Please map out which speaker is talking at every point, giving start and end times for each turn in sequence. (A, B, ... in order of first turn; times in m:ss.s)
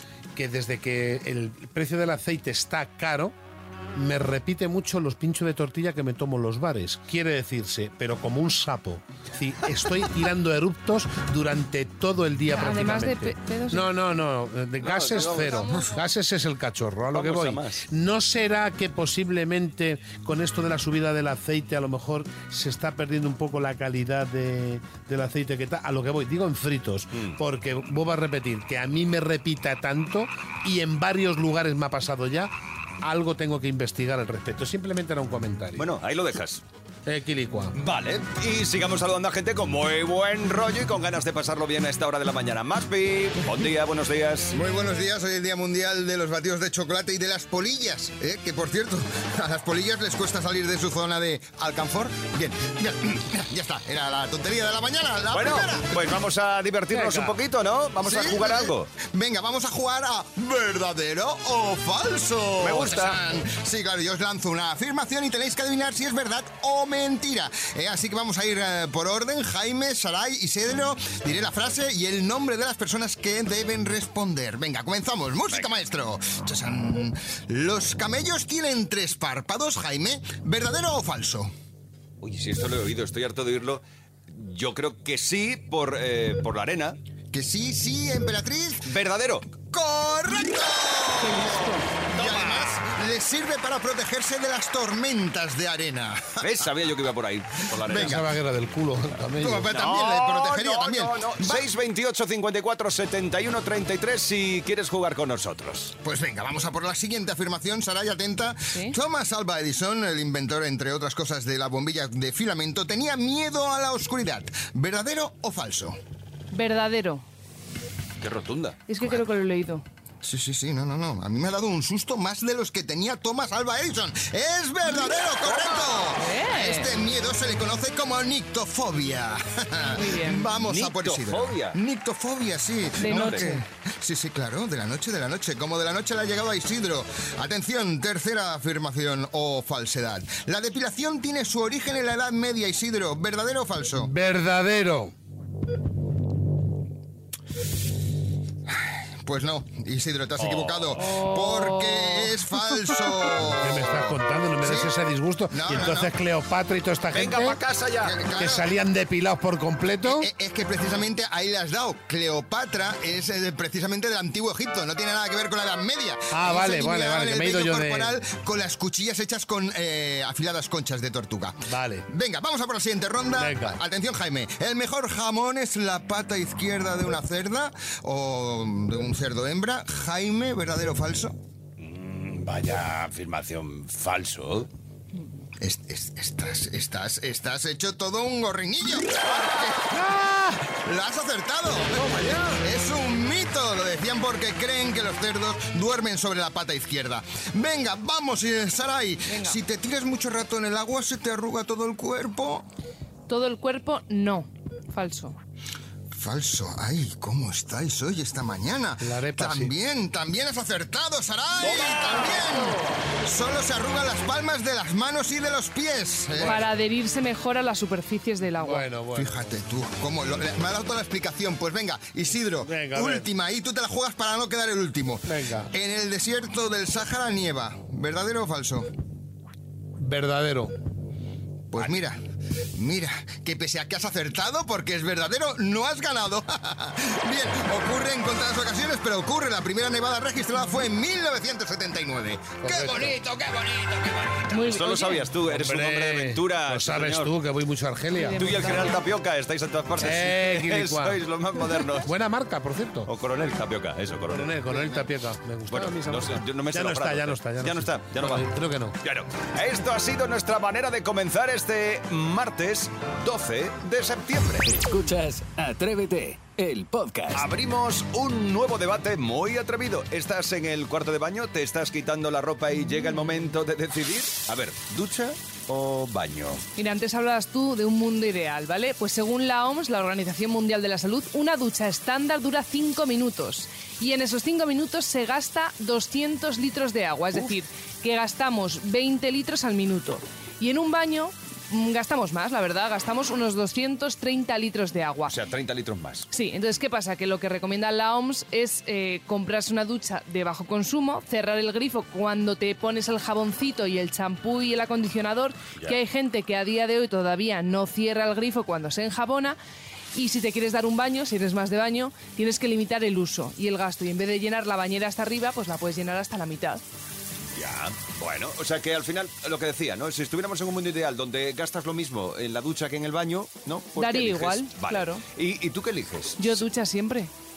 0:00.3-0:03.4 A
0:03.9-0:35.9 A
0:12.5-0:13.9 B
0:14.8-0:15.7 C
0:17.1-0:17.8 C
0:35.7-0:36.6 C
0:37.0-0:37.8 A
0:37.7-0:44.5 C
0:44.5-0:55.9 D
0:55.3-0:58.9 C
0:56.9-0:57.4 A
0:58.0-1:21.5 D
1:02.6-1:03.2 C
1:22.2-1:27.0 C
1:27.3-1:28.9 D
1:28.8-1:29.5 C
1:29.6-1:36.5 D
1:32.2-1:32.8 C
1:36.4-1:38.2 C
1:37.8-1:38.3 D
1:37.8-1:39.7 A
1:39.4-1:41.7 D
1:39.7-1:45.9 C
1:46.0-1:56.0 D
1:56.5-1:57.2 B
1:58.2-1:58.8 C
1:58.9-1:59.8 B
2:00.2-2:24.1 D
2:06.2-2:06.9 B
2:09.9-2:10.5 B
2:10.6-2:11.8 C
2:13.0-2:13.6 B
2:13.0-2:13.5 C
2:23.9-2:25.1 A
2:28.7-2:34.9 D
2:30.4-2:31.2 C
2:31.1-2:32.3 B
2:33.6-2:37.6 A
2:35.5-2:36.1 D
2:37.1-2:38.2 C
2:38.0-2:38.7 D
2:38.4-2:40.3 A
2:40.0-3:01.4 D
2:46.3-2:48.2 A
2:51.6-2:52.0 A
2:53.4-2:53.8 A
3:01.8-3:04.7 C
3:05.6-3:22.6 D
3:19.3-3:19.6 B
3:23.3-3:25.4 B
3:26.1-3:36.6 D
3:29.0-3:29.7 A
3:36.3-3:36.7 A
3:36.4-3:38.8 B
3:38.6-3:39.5 A
3:39.1-3:48.9 D
3:42.6-3:43.3 A
3:45.2-3:45.7 A
3:50.0-3:50.7 A
3:51.7-3:52.2 D
3:52.7-4:04.3 D
4:02.6-4:03.2 A
4:04.5-4:05.2 B
4:04.5-4:07.3 C
4:05.4-4:08.8 A
4:08.1-4:09.0 B
4:08.4-4:12.1 C
4:10.0-4:11.2 A
4:12.0-4:13.1 A
4:13.0-4:14.7 C
4:14.3-4:19.0 A
4:15.7-4:18.5 C
4:19.0-4:24.8 C
4:24.6-4:27.5 E
4:27.3-4:36.6 C
4:36.8-4:55.3 B
4:55.3-4:56.3 C
4:56.3-5:09.6 B
5:10.1-5:16.8 B
5:17.5-5:26.6 C
5:24.0-5:25.2 B
5:26.4-5:27.3 B